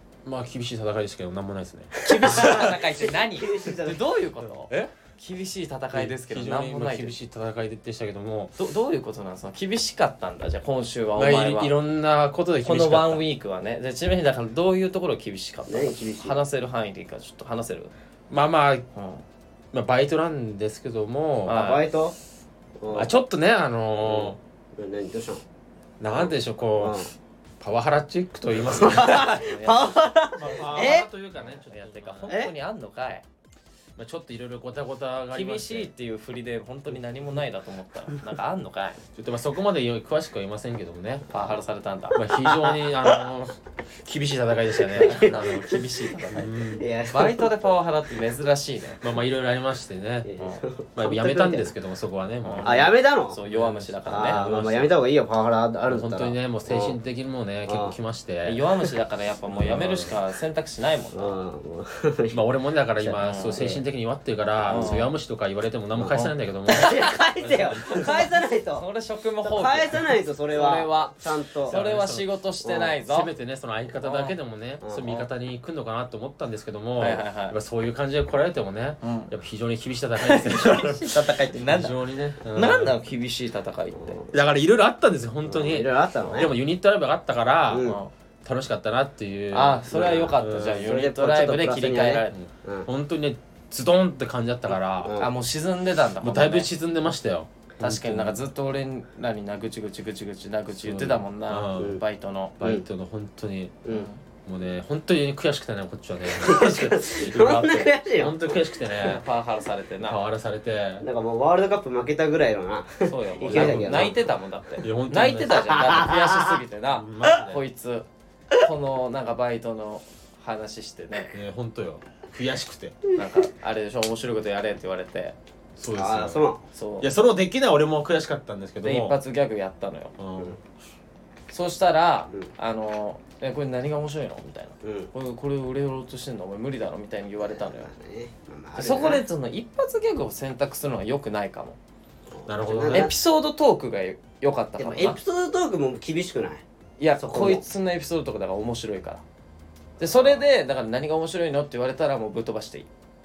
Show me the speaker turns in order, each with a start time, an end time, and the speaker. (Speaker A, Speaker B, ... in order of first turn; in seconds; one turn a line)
Speaker A: 0.2-2.7
Speaker B: 2.0-7.1
Speaker C: 2.2-4.0
Speaker A: 5.9-8.5
Speaker B: 8.6-11.7
Speaker A: 11.2-13.2
Speaker B: 12.6-17.9
Speaker C: 15.7-16.4
Speaker A: 18.3-18.8
Speaker B: 18.9-19.2
Speaker A: 19.7-21.6
Speaker B: 21.5-21.8
Speaker C: 21.5-22.1
Speaker C: 22.8-23.1
Speaker A: 22.9-24.4
Speaker C: 24.0-25.4
Speaker A: 26.0-29.3
Speaker C: 26.1-27.1
Speaker C: 28.6-31.1
Speaker B: 28.8-30.0
Speaker A: 30.4-32.3
Speaker B: 30.6-33.2
Speaker A: 34.0-35.9
Speaker B: 35.3-39.0
Speaker A: 39.1-41.2
Speaker B: 41.3-42.2
Speaker A: 42.1-46.8
Speaker C: 42.3-43.3
Speaker B: 44.8-46.5
Speaker C: 44.9-47.5
Speaker B: 47.1-49.0
Speaker A: 49.0-50.3
Speaker C: 50.2-51.7
Speaker A: 51.0-52.9
Speaker B: 52.4-54.4
Speaker C: 52.6-53.4
Speaker A: 53.5-54.9
Speaker C: 54.0-57.0
Speaker A: 55.9-58.6
Speaker C: 57.6-57.9
Speaker B: 58.4-61.4
Speaker A: 59.5-60.1
Speaker C: 61.1-62.4
Speaker A: 62.3-68.2
Speaker C: 63.0-63.8
Speaker B: 63.1-63.8
Speaker B: 64.7-65.1
Speaker C: 66.0-68.8
Speaker B: 66.8-67.1
Speaker B: 67.9-71.1
Speaker C: 69.4-71.8
Speaker B: 71.7-73.3
Speaker A: 71.7-72.3
Speaker C: 72.6-73.0
Speaker A: 73.1-82.9
Speaker B: 74.0-74.3
Speaker B: 77.0-77.5
Speaker B: 79.0-79.3
Speaker B: 80.2-82.0
Speaker B: 82.5-84.2
Speaker C: 83.9-84.3
Speaker A: 84.3-90.9
Speaker C: 85.5-86.5
Speaker C: 87.7-88.0
Speaker B: 87.8-88.1
Speaker B: 89.5-92.3
Speaker C: 89.9-92.9
Speaker A: 92.3-95.1
Speaker C: 95.0-95.3
Speaker B: 95.2-96.7
Speaker A: 96.2-98.4
Speaker B: 97.8-102.5
Speaker A: 100.7-102.0
Speaker C: 101.8-102.0
Speaker A: 102.6-103.8
Speaker B: 103.9-104.2
Speaker A: 104.5-109.2
Speaker C: 106.3-108.5
Speaker B: 109.0-110.2
Speaker A: 110.0-111.0
Speaker C: 111.0-114.2
Speaker B: 113.0-118.1
Speaker A: 113.5-114.2
Speaker A: 114.8-115.9
Speaker C: 115.5-116.6
Speaker A: 116.9-117.6
Speaker B: 118.6-121.3
Speaker A: 121.3-123.0
Speaker B: 123.1-125.3
Speaker A: 125.8-126.5
Speaker C: 125.9-126.6
Speaker B: 126.7-127.1
Speaker A: 127.0-129.2
Speaker B: 128.8-130.1
Speaker A: 130.2-130.6
Speaker B: 131.5-137.9
Speaker C: 134.8-135.1
Speaker C: 137.4-139.2
Speaker B: 138.8-141.8
Speaker C: 142.3-143.1
Speaker A: 142.5-143.1
Speaker B: 142.9-145.2
Speaker C: 144.8-146.6
Speaker B: 147.0-149.2
Speaker C: 147.2-147.6
Speaker B: 150.0-152.9
Speaker C: 150.1-150.4